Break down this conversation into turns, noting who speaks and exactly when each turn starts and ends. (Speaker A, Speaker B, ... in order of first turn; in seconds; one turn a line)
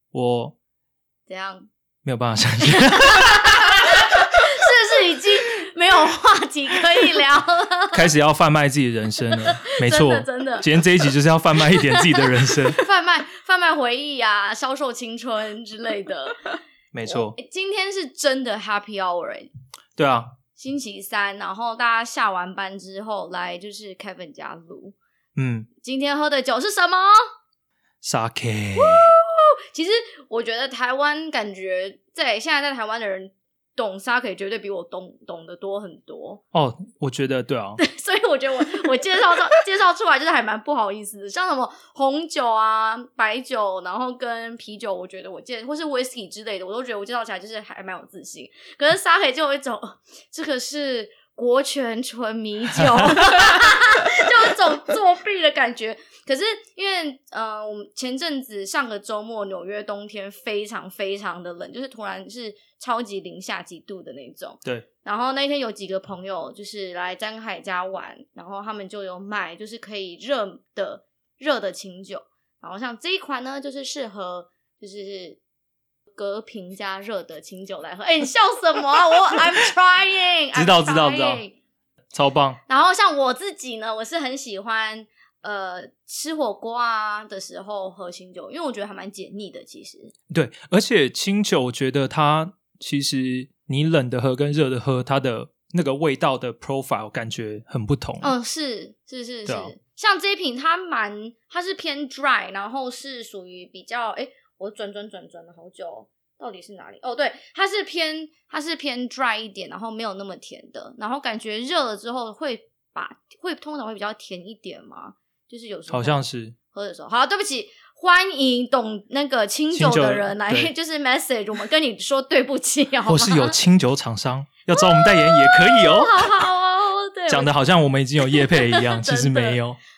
Speaker A: 0.1-0.5
Speaker B: 1.3-1.7
Speaker A: 2.0-3.7
Speaker B: 2.6-8.1
Speaker A: 7.9-12.8
Speaker B: 9.3-10.7
Speaker B: 11.7-16.5
Speaker A: 16.9-17.3
Speaker B: 17.1-19.5
Speaker A: 20.0-20.3
Speaker B: 20.5-25.0
Speaker A: 25.4-25.7
Speaker B: 25.8-27.3
Speaker A: 28.0-29.1
Speaker B: 28.8-36.4
Speaker A: 36.5-37.8
Speaker B: 37.8-75.4
Speaker B: 76.2-81.6
Speaker A: 80.5-81.4
Speaker A: 82.1-82.6
Speaker B: 82.7-90.1
Speaker A: 90.3-98.3
Speaker B: 98.2-123.6
Speaker A: 99.5-99.7
Speaker A: 115.9-116.5
Speaker A: 119.7-120.7
Speaker A: 123.0-126.4
Speaker B: 124.7-127.5
Speaker A: 127.3-129.8
Speaker B: 128.3-129.6